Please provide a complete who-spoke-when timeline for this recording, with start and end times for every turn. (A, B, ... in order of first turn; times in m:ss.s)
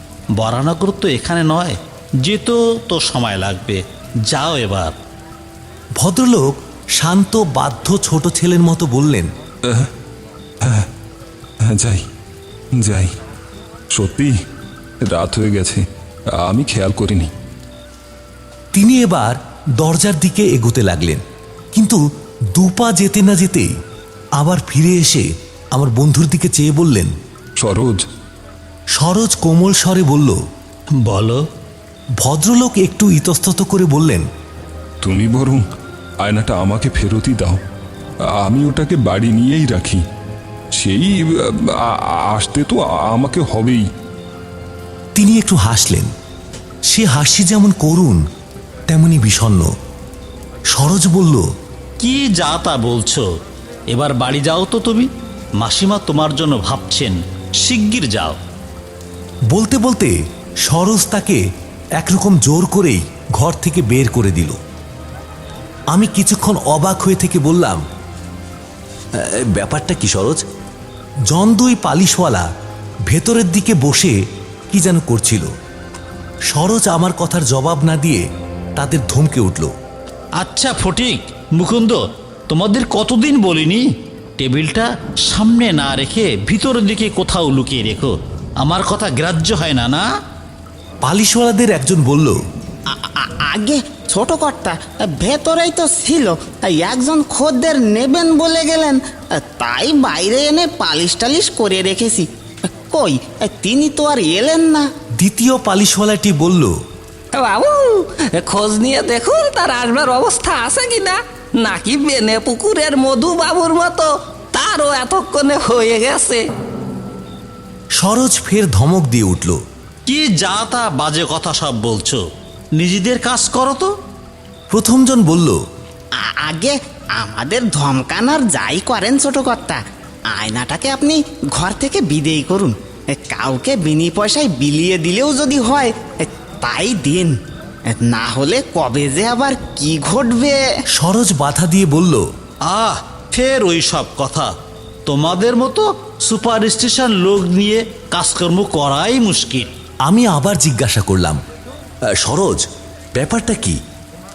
0:00.4-0:05.0 A
0:06.0-0:09.3 B
0:09.7-0:09.9 C
0:10.6-0:10.9 C
0:11.6-0:12.0 C
0:12.8-0:13.1 C
0:13.9-0:14.3 C
0:15.0-0:15.8 C
0:16.4-0:17.3 C
0:18.7-0:21.2 B
0:21.7-0:22.0 B
0:22.5-0:23.7 B
0:24.4-0:27.1 B
0:27.6-0:28.0 C
0:29.0-0:30.4 B
0:31.0-0:31.4 A
0:32.2-0:34.3 B
0:35.0-0:35.6 C
0:36.2-0:37.6 C
0:38.2-0:40.0 C
0:40.7-0:43.8 C
0:45.2-0:46.1 B
0:46.9-0:48.2 B
0:48.9-0:49.7 B
0:50.7-0:51.5 B
0:52.0-0:53.3 A
0:53.9-0:55.1 A
0:55.6-0:58.4 A
0:59.5-1:01.4 B
1:02.0-1:04.6 B
1:05.9-1:07.8 B
1:09.2-1:10.4 B
1:11.3-1:12.5 B
1:13.1-1:14.2 B
1:14.7-1:15.5 B
1:16.5-1:18.3 B
1:18.8-1:19.7 B
1:20.4-1:23.9 A
1:24.4-1:30.1 A
1:31.0-1:32.4 B
1:32.9-1:42.3 D
1:42.9-1:44.9 D
1:45.2-1:46.8 B
1:47.3-1:56.4 E
1:58.0-1:59.6 B
2:00.1-2:02.2 A
2:02.8-2:03.9 A
2:04.7-2:05.6 B
2:06.2-2:09.8 D
2:10.3-2:17.4 D
2:17.9-2:20.6 D
2:21.0-2:22.3 B
2:22.7-2:24.5 A
2:25.1-2:29.7 A
2:30.1-2:31.4 B
2:32.1-2:32.6 B
2:33.2-2:33.8 B